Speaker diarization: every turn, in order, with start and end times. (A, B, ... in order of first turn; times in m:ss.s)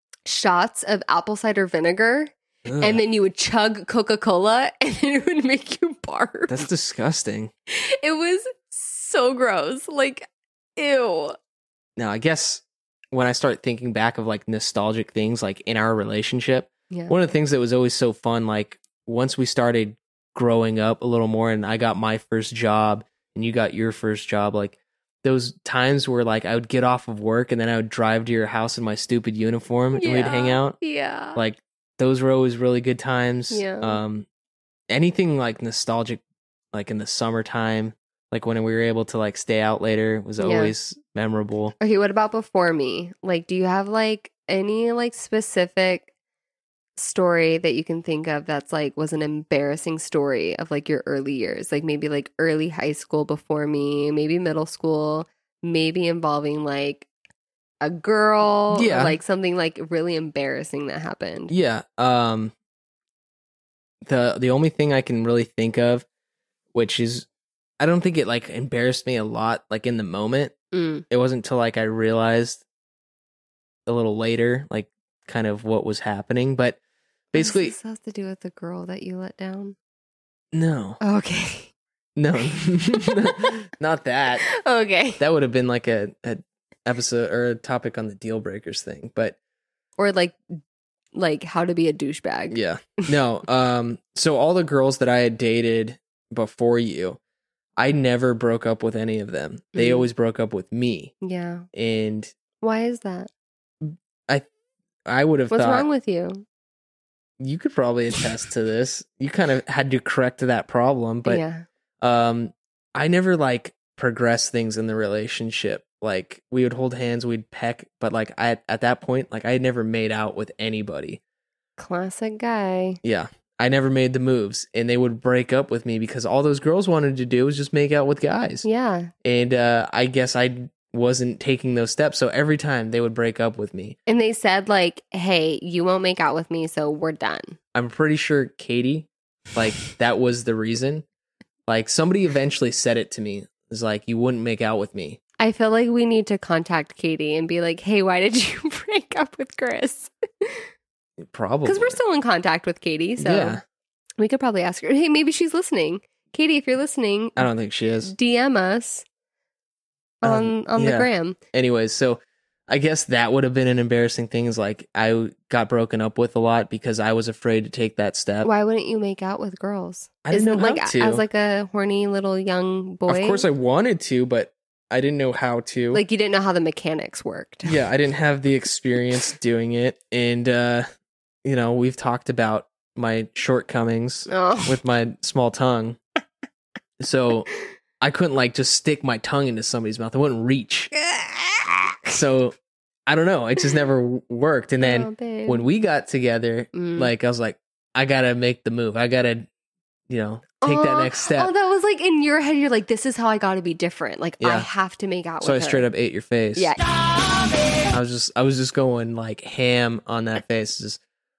0:00.3-0:06.6 A
0:02.6-0:03.0 B
0:06.5-0:07.5 B
0:07.7-0:11.4 A
0:12.0-0:30.8 B
0:30.0-0:31.4 A
0:31.3-0:34.3 B
0:33.5-0:34.0 A
0:34.9-0:36.2 B
0:36.7-0:41.8 B
0:40.4-0:40.7 A
0:41.8-0:46.1 A
0:47.0-0:57.1 A
0:57.8-1:01.5 A
0:58.7-0:59.2 B
1:01.5-1:02.5 B
1:04.0-1:06.0 B
1:06.7-1:07.3 B
1:07.8-1:10.6 B
1:10.7-1:11.0 A
1:11.1-1:12.6 B
1:13.9-1:16.8 B
1:17.3-1:17.8 B
1:17.4-1:19.8 A
1:20.5-1:21.0 B
1:21.0-1:21.7 A
1:22.2-1:24.5 B
1:22.9-1:23.5 A
1:24.6-1:25.2 A
1:25.2-1:29.4 B
1:30.0-1:30.4 A
1:31.2-1:33.0 A
1:32.5-1:37.2 B
1:37.8-1:41.1 B
1:39.8-1:40.1 A
1:41.2-1:41.7 A
1:41.7-1:42.3 B
1:42.6-1:43.3 A
1:43.8-1:44.5 B
1:45.1-1:45.9 B
1:45.5-1:46.4 A
1:47.4-1:51.4 B
1:51.3-1:51.6 A
1:52.0-2:01.2 B
2:01.8-2:03.0 A
2:03.0-2:08.7 B
2:08.6-2:09.1 A
2:09.2-2:14.0 B
2:14.1-2:17.6 A
2:17.8-2:21.0 B
2:21.7-2:25.2 B
2:25.4-2:30.6 A
2:31.2-2:32.0 B
2:31.7-2:33.6 A
2:33.2-2:33.6 B
2:34.2-2:37.5 A
2:37.4-2:38.1 B
2:38.0-2:39.0 A
2:40.2-2:41.4 A
2:40.2-2:48.5 B
2:48.4-2:53.5 A
2:50.2-2:51.2 B
2:53.1-2:56.0 B
2:55.9-2:57.7 A
2:57.6-3:00.9 B
3:01.4-3:06.0 B
3:04.3-3:04.8 A
3:07.0-3:07.5 B
3:08.0-3:10.9 B
3:10.9-3:12.2 A
3:12.1-3:12.6 B
3:13.1-3:19.5 B
3:14.8-3:15.7 A
3:16.7-3:17.1 A
3:20.1-3:21.5 B
3:20.6-3:25.9 A
3:24.4-3:24.7 B
3:25.4-3:26.8 B
3:27.9-3:31.0 B